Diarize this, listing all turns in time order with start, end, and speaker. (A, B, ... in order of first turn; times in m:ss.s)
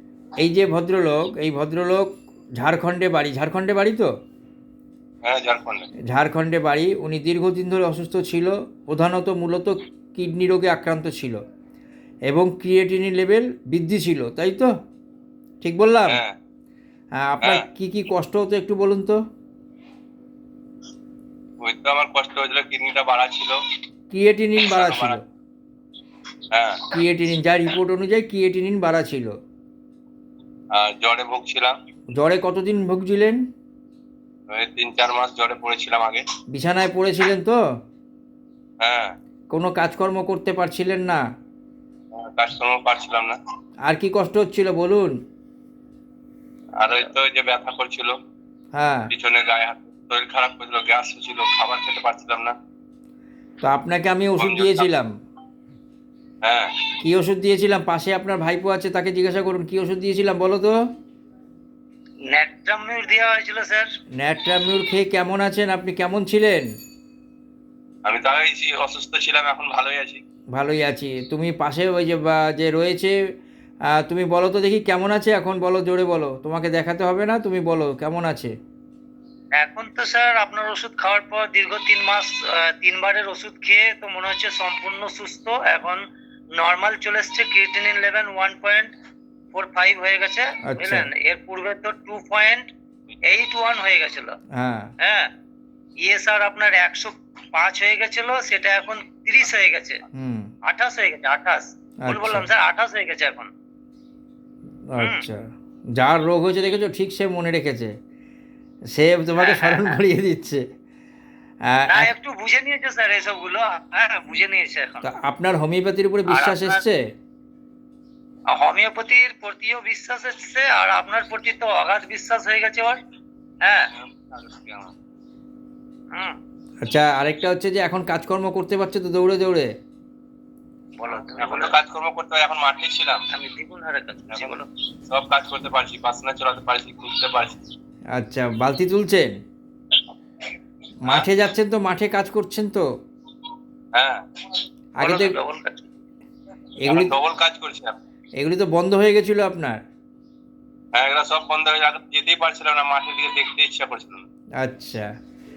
0:00.4-0:04.1 A
0:05.2-0:05.9 B
0:06.1-0:11.4 A
0:12.3-0:14.7 A
0:15.6-0:16.2 A
0:16.1-0:16.3 B
0:17.2-0:19.2 A
0:17.4-0:17.6 B
0:21.6-0:23.6 B
0:24.1-0:25.2 A
0:24.6-0:25.2 B
0:26.5-0:26.8 B
0:26.9-0:29.3 A
0:30.7-0:31.7 B
0:32.2-0:33.4 A
0:34.5-0:36.2 B
0:36.5-0:37.6 A
0:38.8-0:39.1 B
0:39.5-0:41.2 A
0:42.1-0:43.4 B
0:43.9-0:45.1 A
0:46.8-0:48.1 B
0:48.8-0:49.1 A
0:49.1-0:52.5 B
0:53.6-0:55.1 A
0:54.4-0:54.9 B
0:56.4-0:56.7 B
0:57.0-1:00.7 A
1:02.3-1:03.9 C
1:04.2-1:06.7 A
1:08.0-1:10.2 B
1:10.5-1:13.1 A
1:14.0-1:18.5 A
1:19.6-1:26.0 C
1:26.6-1:28.9 C
1:29.5-1:32.7 C
1:30.7-1:31.1 A
1:33.3-1:34.4 C
1:34.6-1:34.9 A
1:35.0-1:35.3 C
1:36.0-1:40.0 C
1:40.2-1:40.5 A
1:40.6-1:43.5 C
1:42.0-1:42.5 A
1:44.9-1:45.4 A
1:45.0-1:45.2 C
1:46.0-1:47.9 A
1:48.9-1:50.6 A
1:49.4-1:50.0 C
1:51.7-1:52.1 A
1:51.9-1:55.0 C
1:55.0-1:57.0 A
1:56.3-1:56.8 C
1:58.6-2:03.0 C
2:03.6-2:03.9 C
2:03.9-2:04.9 B
2:06.1-2:06.4 C
2:06.9-2:09.7 A
2:11.0-2:11.7 C
2:11.2-2:13.2 B
2:13.3-2:14.6 C
2:14.3-2:14.6 B
2:15.1-2:17.6 B
2:18.2-2:19.4 A
2:21.0-2:22.8 A
2:23.9-2:24.2 B
2:25.0-2:25.3 A
2:25.0-2:25.8 C
2:26.8-2:27.1 A
2:26.8-2:27.9 B
2:28.4-2:29.8 A
2:30.9-2:34.2 B
2:34.6-2:35.0 A